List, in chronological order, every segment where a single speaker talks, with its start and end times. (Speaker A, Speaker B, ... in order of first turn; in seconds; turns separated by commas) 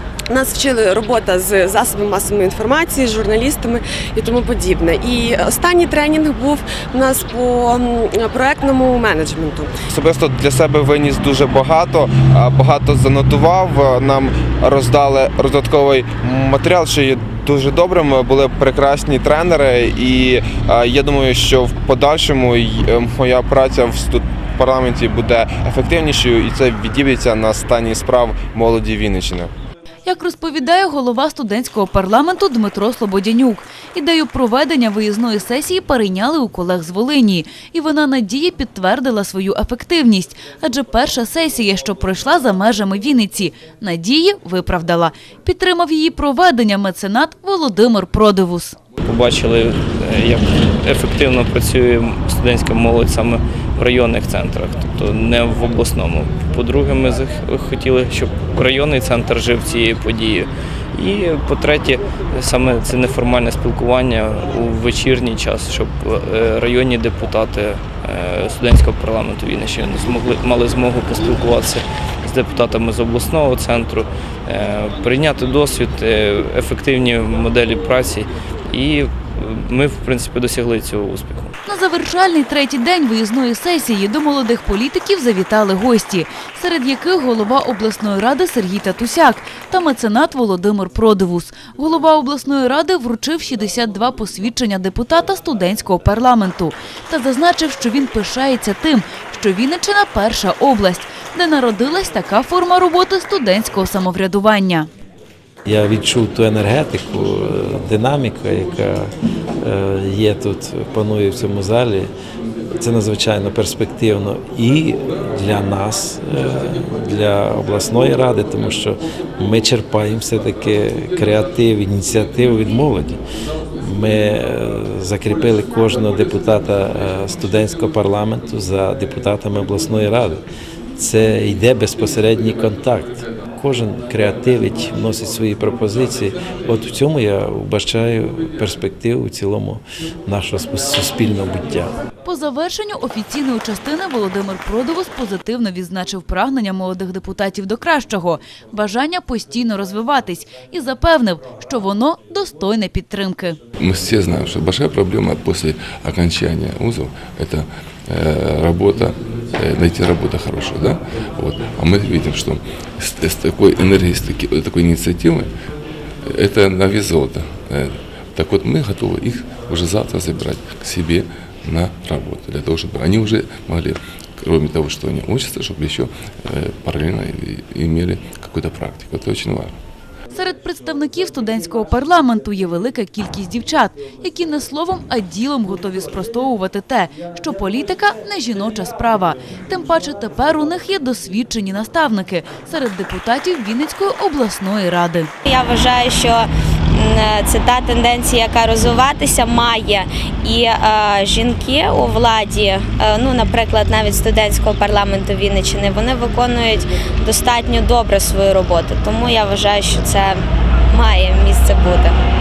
Speaker A: 0.3-9.8, Speaker B: 9.9-29.5, Speaker C: 30.1-48.8, Speaker D: 49.0-81.5, Speaker C: 81.7-104.9, Speaker E: 105.7-112.1, Speaker E: 112.8-123.2, Speaker E: 123.8-130.4, Speaker E: 130.9-141.9, Speaker C: 142.2-153.6, Speaker F: 153.8-165.5, Speaker F: 166.3-179.8, Speaker C: 180.3-195.3, Speaker G: 195.4-212.2